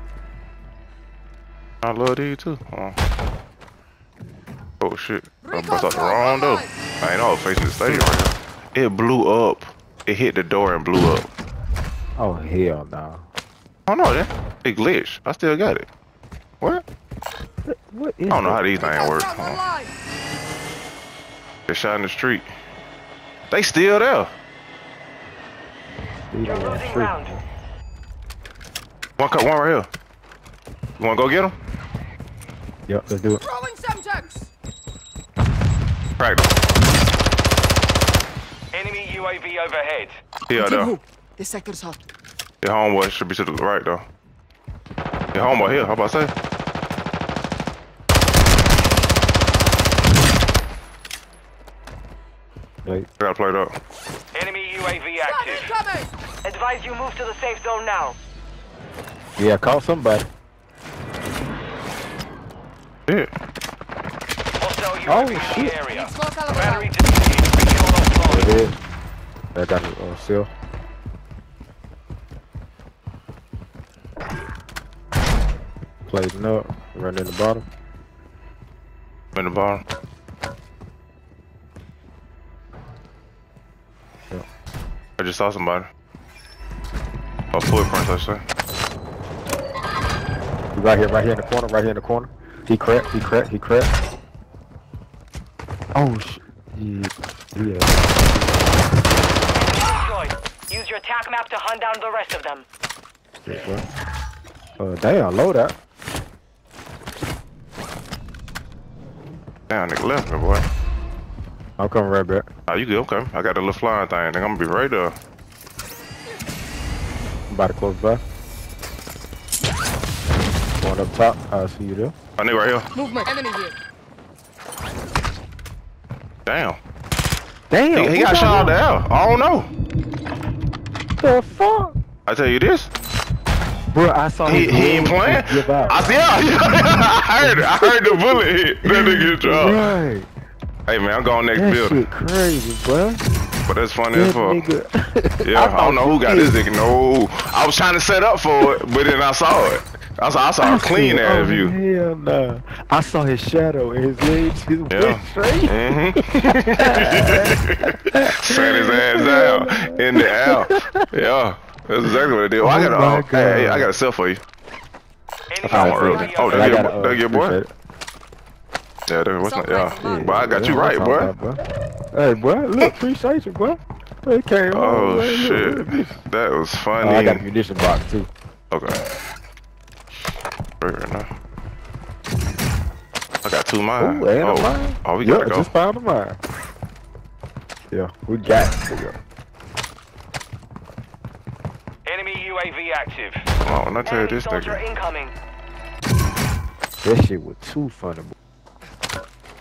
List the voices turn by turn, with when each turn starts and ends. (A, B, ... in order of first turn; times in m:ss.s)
0:01.8-0:03.0 A
0:04.8-0:11.3 A
0:05.5-0:06.7 B
0:07.8-0:08.1 C
0:12.2-0:13.2 C
0:13.9-0:15.9 A
0:17.7-0:18.6 C
0:18.3-0:19.6 A
0:18.8-0:19.9 B
0:21.7-0:22.5 A
0:23.5-0:24.3 A
0:26.3-0:27.4 C
0:26.4-0:27.4 D
0:29.2-0:29.9 A
0:31.0-0:31.5 A
0:32.9-0:33.4 C
0:33.5-0:34.5 B
0:36.2-0:36.5 A
0:38.7-0:40.2 D
0:40.5-0:41.0 A
0:40.6-0:41.9 B
0:42.6-0:44.1 A
0:45.3-0:46.3 A
0:53.2-0:53.7 A
0:54.3-0:55.7 D
0:55.2-0:56.1 B
0:56.4-0:58.2 D
0:59.4-1:00.2 C
1:04.6-1:08.5 D
1:05.1-1:05.8 C
1:05.9-1:06.9 B
1:08.2-1:08.8 C
1:09.6-1:10.5 C
1:16.1-1:17.7 C
1:19.3-1:19.8 A
1:25.2-1:25.9 A
1:27.5-1:28.4 A
1:30.8-1:33.9 C
1:35.9-1:38.6 C
1:39.6-1:42.6 D
1:43.4-1:43.8 C
1:44.8-1:45.8 C
1:49.7-1:50.7 A
1:51.8-1:52.5 C
1:52.7-1:55.1 A
1:57.5-1:58.2 C
2:00.8-2:02.1 C
2:02.4-2:02.9 A
2:03.0-2:03.7 B
2:06.4-2:06.8 A
2:07.7-2:08.8 C
2:07.9-2:09.7 A
2:11.2-2:12.0 C
2:12.2-2:12.9 A
2:13.9-2:16.2 C
2:14.4-2:20.0 A
2:17.4-2:20.3 C
2:20.9-2:22.1 A
2:21.5-2:23.3 C
2:23.7-2:24.7 A
2:24.1-2:26.6 C
2:25.4-2:31.8 A
2:30.6-2:41.1 C
2:34.9-2:44.4 A
2:42.1-2:43.9 C
2:45.5-2:46.9 D
2:45.6-2:47.6 A
2:45.7-2:47.7 C
2:45.8-2:46.4 B
2:49.1-2:51.3 A
2:49.4-2:50.4 B
2:50.0-2:51.6 C
2:52.1-2:56.2 C
2:54.7-2:57.5 A
2:57.0-2:58.3 C
2:58.7-2:59.0 A
3:00.8-3:01.3 A
3:03.4-3:05.7 A
3:04.0-3:06.4 C
3:07.9-3:09.2 C
3:12.1-3:13.5 D
3:13.6-3:14.8 A
3:13.6-3:14.0 C
3:14.0-3:15.3 D
3:17.0-3:18.4 C